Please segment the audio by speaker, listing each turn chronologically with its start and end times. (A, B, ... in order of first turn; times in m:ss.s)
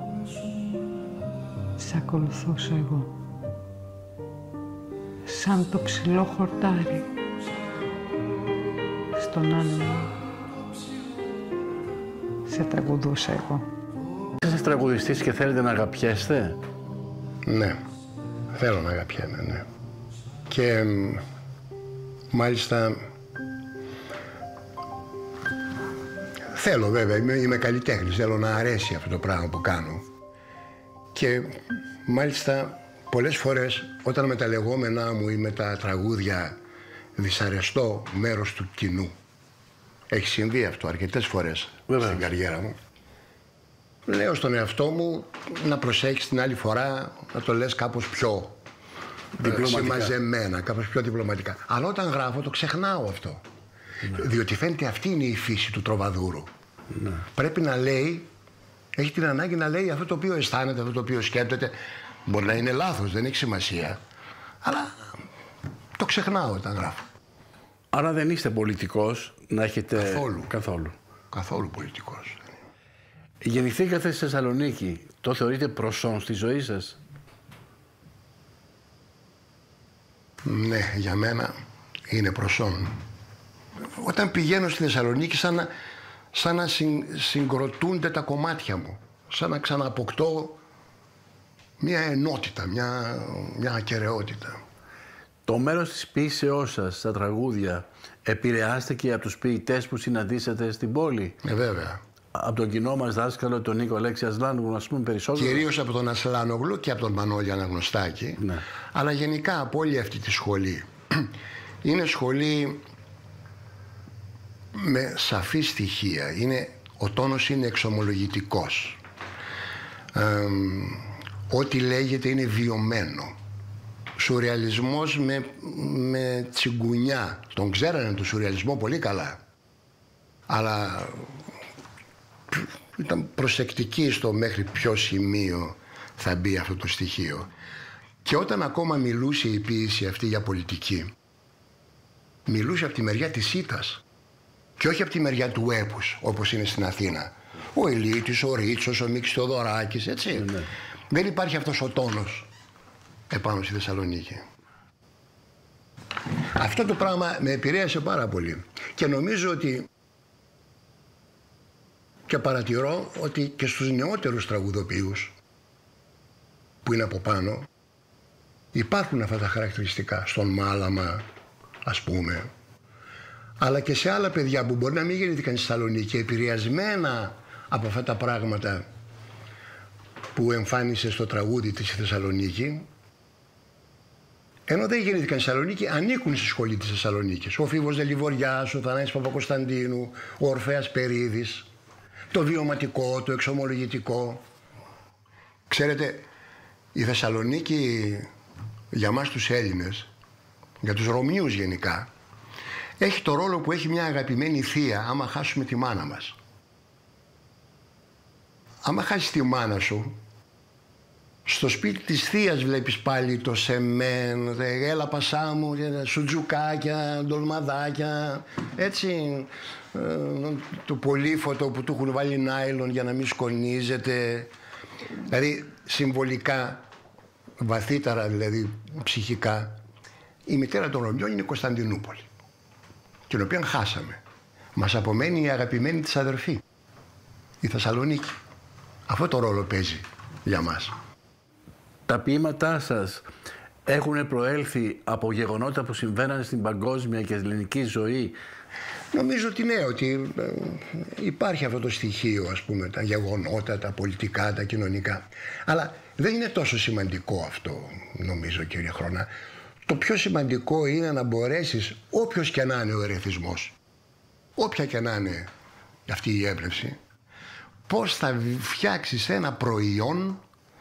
0:01.8-0:03.1 A
0:05.2-0:07.1 A
0:09.1-0:10.2 A
0:12.4-0:13.7 A
0:14.4-0:16.6 B
0:17.4-0:17.8 C
0:18.5-0:19.7 C
0:20.5-0:21.2 C
0:22.3-0:23.0 C
0:26.5-0:30.0 C
0:31.1-0:36.6 C
0:37.2-0:39.1 C
0:40.1-0:42.8 C
0:41.9-0:42.2 B
0:44.1-0:48.6 C
0:49.4-0:50.2 B
0:49.4-0:53.4 C
0:54.1-0:56.5 C
0:57.0-0:57.2 B
0:57.3-0:58.3 C
0:58.9-1:04.0 C
1:04.6-1:05.2 C
1:06.0-1:07.1 C
1:07.9-1:11.0 B
1:10.0-1:10.5 C
1:11.3-1:12.5 C
1:13.4-1:17.0 B
1:20.4-1:21.5 C
1:22.1-1:23.0 C
1:23.8-1:25.7 C
1:26.3-1:30.6 C
1:31.8-1:34.6 C
1:35.4-1:41.4 B
1:41.4-1:42.0 C
1:42.3-1:45.6 B
1:45.3-1:52.8 C
1:48.4-1:48.6 B
1:54.7-1:59.0 C
2:00.1-2:03.4 C
2:04.2-2:09.4 C
2:10.5-2:11.4 C
2:12.5-2:17.5 C
2:18.2-2:21.1 C
2:22.4-2:24.0 C
2:24.8-2:32.5 C
2:30.4-2:30.7 B
2:33.3-2:34.4 C
2:36.4-2:39.9 C
2:42.3-2:45.3 C
2:46.8-2:47.7 C
2:48.7-2:51.2 C
2:51.8-2:52.5 C
2:53.6-2:58.8 C
3:00.3-3:02.9 C
3:04.7-3:11.7 C
3:12.3-3:14.4 C
3:15.7-3:16.3 C
3:16.9-3:18.3 C
3:18.9-3:20.1 C
3:20.8-3:22.1 C
3:23.0-3:26.4 C
3:28.8-3:30.2 C
3:31.4-3:44.5 C
3:45.3-3:46.8 C
3:47.6-3:49.8 C
3:50.5-3:52.3 C
3:53.3-3:54.2 C
3:54.7-3:56.6 C
3:57.6-3:58.3 C
3:59.1-4:00.9 C
4:02.1-4:03.2 B
4:03.8-4:08.4 B
4:09.1-4:19.3 C
4:19.9-4:23.7 C
4:24.6-4:25.5 C
4:26.1-4:27.0 C
4:27.9-4:30.4 C